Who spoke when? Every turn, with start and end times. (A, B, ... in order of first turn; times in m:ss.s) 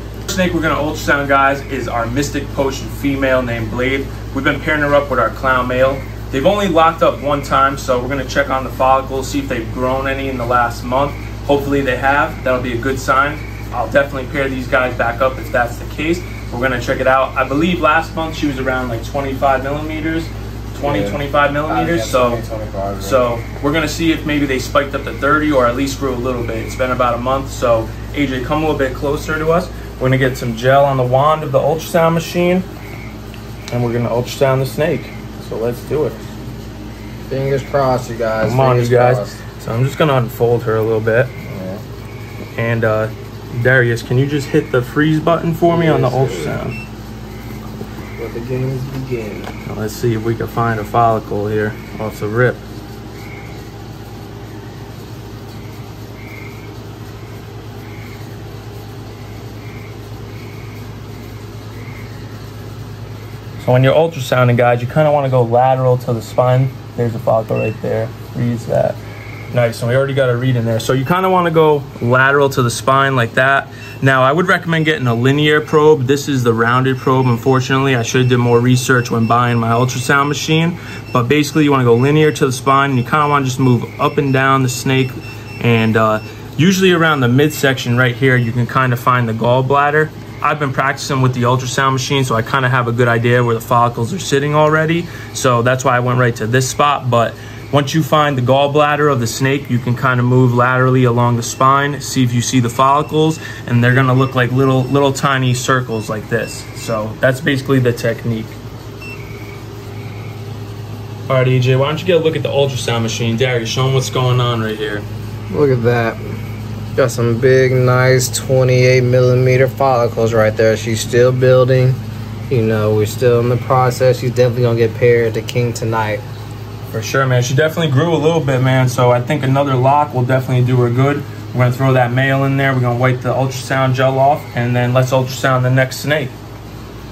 0:00.2-0:22.4 A
0:20.8-0:23.3 B
0:23.0-0:32.7 A
0:33.7-0:36.2 A
0:37.3-0:39.4 B
0:38.4-0:41.3 A
0:41.4-0:41.8 B
0:42.5-0:46.8 A
0:45.7-0:46.6 B
0:48.2-0:49.5 B
0:49.7-0:52.6 A
1:03.6-1:09.0 A
1:09.5-1:48.6 A
1:51.3-1:55.0 A
1:55.5-1:56.2 B
1:57.0-2:06.2 B
2:06.9-2:16.4 A